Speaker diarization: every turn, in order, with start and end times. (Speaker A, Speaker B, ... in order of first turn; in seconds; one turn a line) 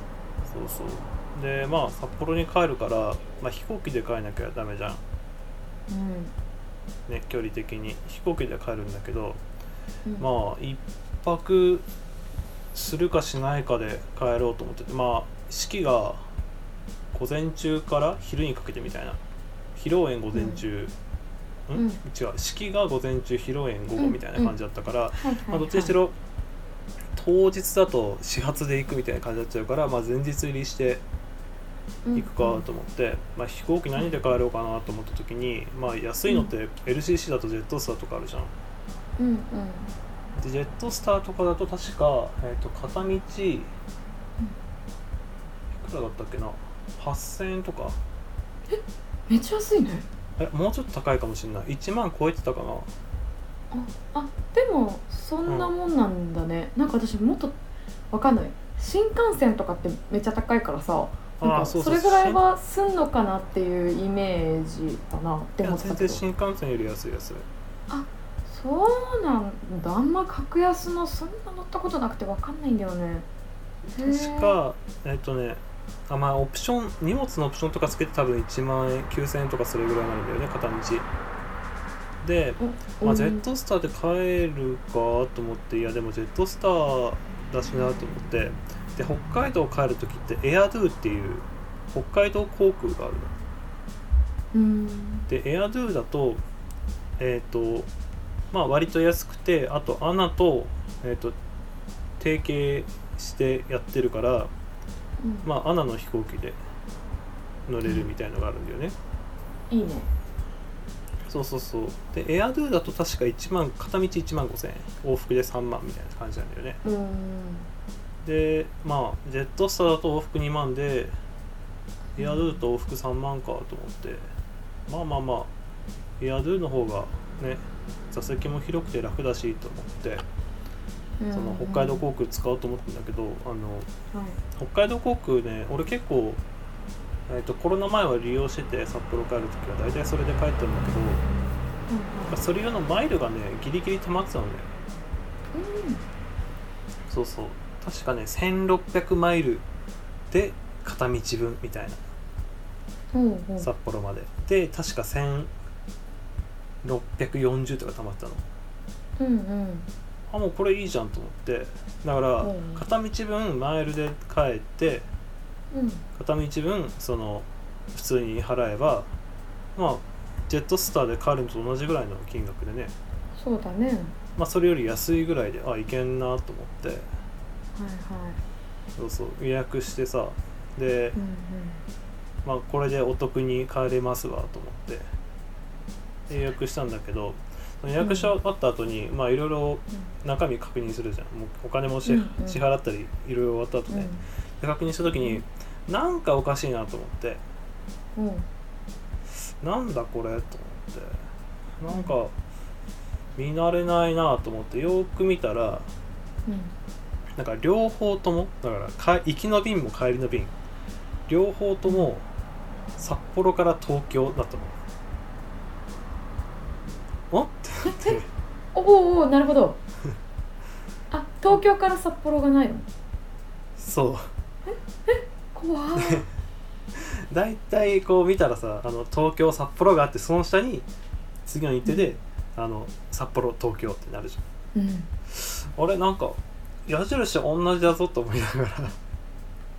Speaker A: 0.5-5.0
Speaker B: 5.9-6.3
Speaker A: 7.1-9.4
Speaker A: 10.2-11.9
Speaker A: 12.7-16.2
Speaker A: 17.1-19.2
Speaker A: 19.8-20.9
Speaker B: 20.3-20.6
Speaker A: 21.7-26.1
Speaker B: 21.8-22.0
Speaker B: 24.0-24.6
Speaker B: 25.2-26.0
Speaker A: 27.1-31.0
Speaker B: 32.0-32.6
Speaker A: 32.1-38.5
Speaker B: 39.2-39.9
Speaker A: 40.4-43.7
Speaker A: 45.7-48.0
Speaker B: 48.7-50.0
Speaker A: 50.4-52.9
Speaker B: 53.7-57.6
Speaker A: 55.5-55.7
Speaker B: 58.1-66.2
Speaker A: 61.4-62.4
Speaker A: 65.6-67.5
Speaker B: 67.9-73.3
Speaker B: 74.0-74.6
Speaker A: 74.0-81.1
Speaker A: 82.2-93.4
Speaker B: 82.6-83.5
Speaker B: 94.5-95.3
Speaker A: 95.3-96.4
Speaker A: 97.2-97.9
Speaker A: 98.5-101.3
Speaker A: 102.2-104.5
Speaker B: 105.2-105.5
Speaker A: 105.4-106.6
Speaker A: 107.7-109.0
Speaker B: 109.7-110.1
Speaker A: 111.3-116.8
Speaker B: 116.8-117.7
Speaker A: 118.2-121.2
Speaker B: 122.2-122.6
Speaker A: 122.2-124.3
Speaker A: 124.9-125.5
Speaker A: 126.2-130.2
Speaker B: 131.2-132.0
Speaker A: 131.3-133.9
Speaker B: 134.1-134.4
Speaker A: 134.6-136.4
Speaker A: 137.3-141.2
Speaker B: 141.9-142.4
Speaker A: 142.3-144.7
Speaker B: 145.5-146.0
Speaker A: 147.1-149.7
Speaker A: 150.3-152.0
Speaker B: 153.1-153.7
Speaker A: 153.6-155.5
Speaker A: 156.8-158.4
Speaker B: 159.2-159.9
Speaker A: 160.3-165.1
Speaker B: 162.4-162.8
Speaker B: 165.7-166.0
Speaker A: 166.2-169.1
Speaker A: 169.8-172.9
Speaker B: 173.4-174.2
Speaker A: 174.4-177.1
Speaker B: 177.8-178.4
Speaker A: 179.0-181.2
Speaker B: 181.2-181.8
Speaker A: 182.4-185.1
Speaker A: 186.3-197.4
Speaker B: 188.0-188.3
Speaker B: 192.1-192.6
Speaker B: 193.9-194.2
Speaker B: 195.2-195.4
Speaker B: 198.2-198.5
Speaker A: 199.6-201.2
Speaker A: 201.8-202.3
Speaker A: 203.4-205.9
Speaker B: 206.5-206.7
Speaker A: 207.4-210.5
Speaker A: 211.3-212.3
Speaker A: 213.0-214.8
Speaker A: 217.3-218.3
Speaker B: 217.8-218.2
Speaker B: 218.7-219.8
Speaker B: 221.1-222.9
Speaker A: 223.8-224.3
Speaker B: 224.7-226.3
Speaker A: 226.0-226.3
Speaker A: 226.9-230.9
Speaker A: 231.4-234.4
Speaker B: 234.8-235.1
Speaker A: 235.3-239.0